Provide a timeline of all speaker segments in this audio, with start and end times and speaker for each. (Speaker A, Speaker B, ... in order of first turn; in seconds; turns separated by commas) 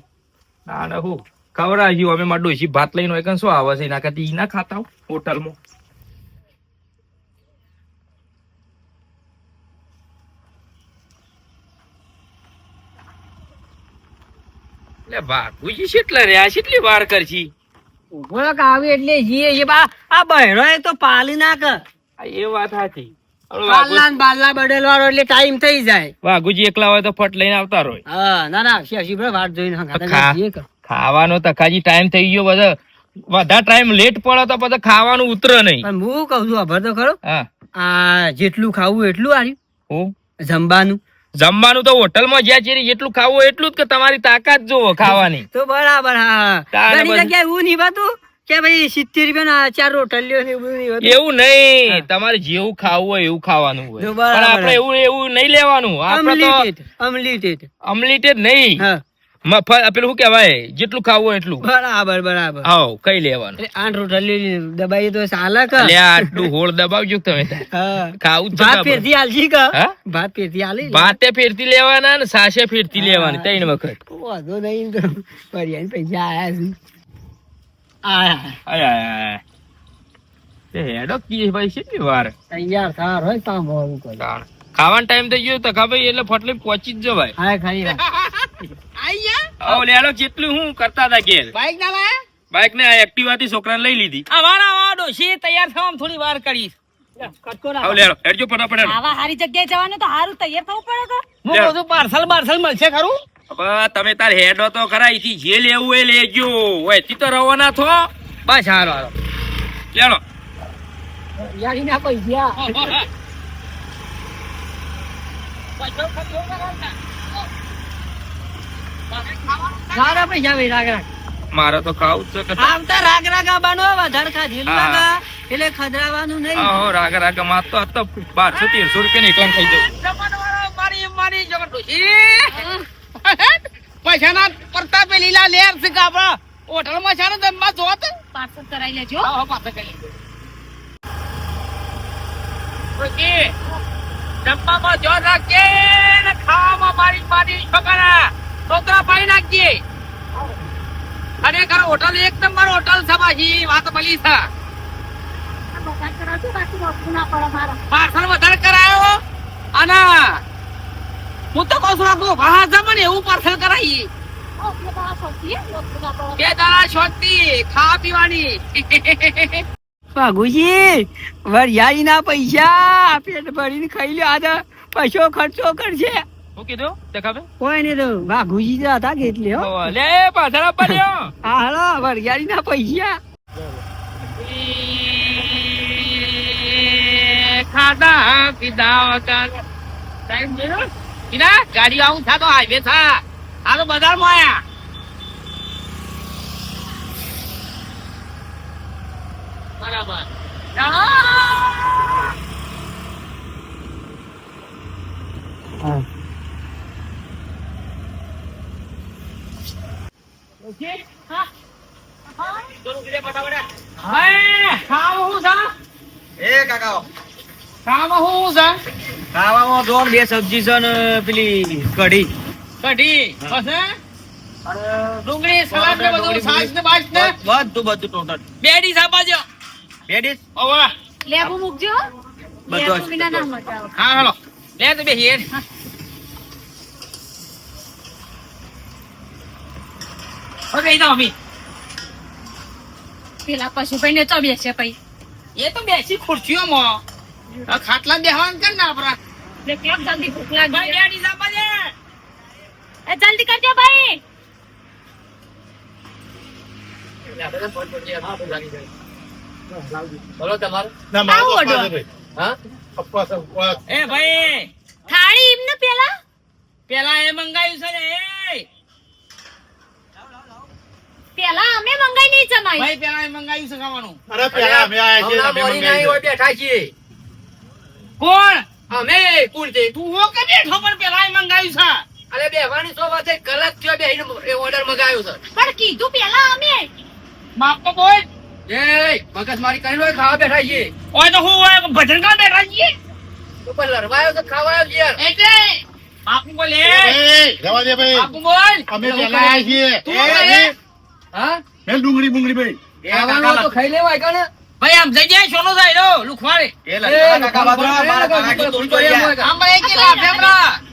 Speaker A: 0.7-5.6, Speaker A: 15.1-17.5, Speaker B: 18.1-21.8, Speaker A: 22.2-24.1, Speaker B: 23.7-26.1, Speaker A: 26.2-28.0, Speaker B: 28.1-30.6, Speaker A: 29.9-32.8, Speaker A: 33.3-35.9, Speaker B: 35.8-37.2, Speaker B: 37.8-39.6, Speaker B: 40.4-41.0, Speaker A: 41.4-45.5, Speaker B: 45.0-51.2, Speaker A: 46.7-47.3, Speaker A: 51.0-56.6, Speaker B: 54.0-54.8, Speaker B: 56.1-57.7, Speaker A: 57.9-58.8, Speaker A: 59.5-61.6, Speaker B: 61.6-62.7, Speaker A: 62.6-63.6, Speaker B: 63.6-66.3, Speaker A: 65.7-67.7, Speaker B: 67.7-71.1, Speaker A: 68.2-69.1, Speaker A: 70.9-74.0, Speaker B: 73.0-73.5, Speaker B: 74.1-76.8, Speaker B: 78.0-78.6, Speaker A: 78.7-79.4, Speaker A: 80.7-82.3, Speaker B: 82.5-84.2, Speaker A: 84.2-87.3, Speaker B: 87.4-88.0, Speaker C: 87.8-89.8, Speaker A: 89.6-91.5, Speaker C: 91.5-92.2, Speaker A: 92.5-94.3, Speaker C: 94.3-96.7, Speaker B: 97.2-98.1, Speaker A: 97.8-99.0, Speaker D: 98.8-101.3, Speaker C: 101.4-103.2, Speaker A: 103.5-108.1, Speaker C: 108.5-109.1, Speaker A: 109.9-110.2, Speaker B: 111.4-113.0, Speaker A: 112.6-113.1, Speaker C: 115.8-116.9, Speaker C: 119.1-120.3, Speaker B: 119.9-121.1, Speaker A: 121.5-122.8, Speaker B: 122.6-126.7, Speaker A: 124.7-125.1, Speaker A: 126.6-129.9, Speaker C: 129.5-132.6, Speaker D: 132.5-132.8, Speaker C: 133.2-138.1, Speaker D: 138.3-139.3, Speaker C: 139.2-140.1, Speaker C: 143.0-143.5, Speaker C: 144.4-149.8, Speaker C: 151.4-154.5, Speaker D: 155.7-157.8, Speaker C: 157.9-159.2, Speaker C: 159.7-160.4, Speaker C: 161.5-164.1, Speaker D: 164.6-166.5, Speaker C: 166.4-169.6, Speaker B: 170.2-176.2, Speaker A: 176.6-177.5, Speaker B: 177.6-179.7, Speaker A: 179.5-181.3, Speaker B: 180.8-183.2, Speaker C: 184.4-189.6, Speaker C: 190.3-194.6, Speaker C: 199.8-200.2, Speaker C: 200.8-201.9, Speaker C: 210.6-211.0, Speaker D: 212.4-212.7, Speaker C: 212.9-215.7, Speaker E: 216.4-217.1, Speaker C: 217.9-218.8, Speaker E: 219.3-222.3, Speaker C: 222.8-223.9, Speaker E: 224.7-225.2, Speaker C: 225.2-227.4, Speaker E: 225.7-228.4, Speaker C: 228.6-229.4, Speaker E: 230.1-230.4, Speaker C: 230.6-230.9, Speaker D: 231.3-232.0, Speaker E: 232.7-233.5, Speaker D: 232.7-233.9, Speaker C: 234.0-235.5, Speaker C: 240.7-241.3, Speaker D: 243.5-245.0, Speaker C: 245.6-247.0, Speaker C: 247.7-249.2, Speaker D: 249.7-251.0, Speaker C: 250.7-251.9, Speaker D: 253.1-254.2, Speaker F: 257.3-258.9, Speaker F: 260.4-260.9, Speaker G: 261.1-262.1, Speaker D: 261.2-261.9, Speaker G: 263.0-263.8, Speaker C: 263.9-264.7, Speaker D: 265.1-266.1, Speaker C: 266.9-268.7, Speaker E: 270.2-270.4, Speaker D: 271.4-272.9, Speaker C: 272.8-274.2, Speaker G: 274.3-276.2, Speaker F: 274.5-276.9, Speaker C: 278.2-278.7, Speaker F: 278.9-279.9, Speaker C: 279.9-282.0, Speaker F: 282.3-285.4, Speaker D: 285.5-286.9, Speaker C: 287.6-288.3, Speaker F: 288.7-290.9, Speaker C: 291.1-292.9, Speaker F: 293.6-295.2, Speaker C: 295.2-297.2, Speaker G: 296.8-298.3, Speaker C: 298.1-298.9, Speaker G: 298.9-300.7, Speaker F: 299.0-299.8, Speaker C: 300.1-300.7, Speaker E: 300.1-300.6, Speaker F: 301.3-301.6, Speaker G: 301.9-302.8, Speaker E: 303.0-303.7, Speaker F: 303.1-304.5, Speaker C: 304.8-306.7, Speaker E: 306.9-309.4, Speaker F: 307.0-309.5, Speaker C: 309.4-310.8, Speaker D: 309.7-310.6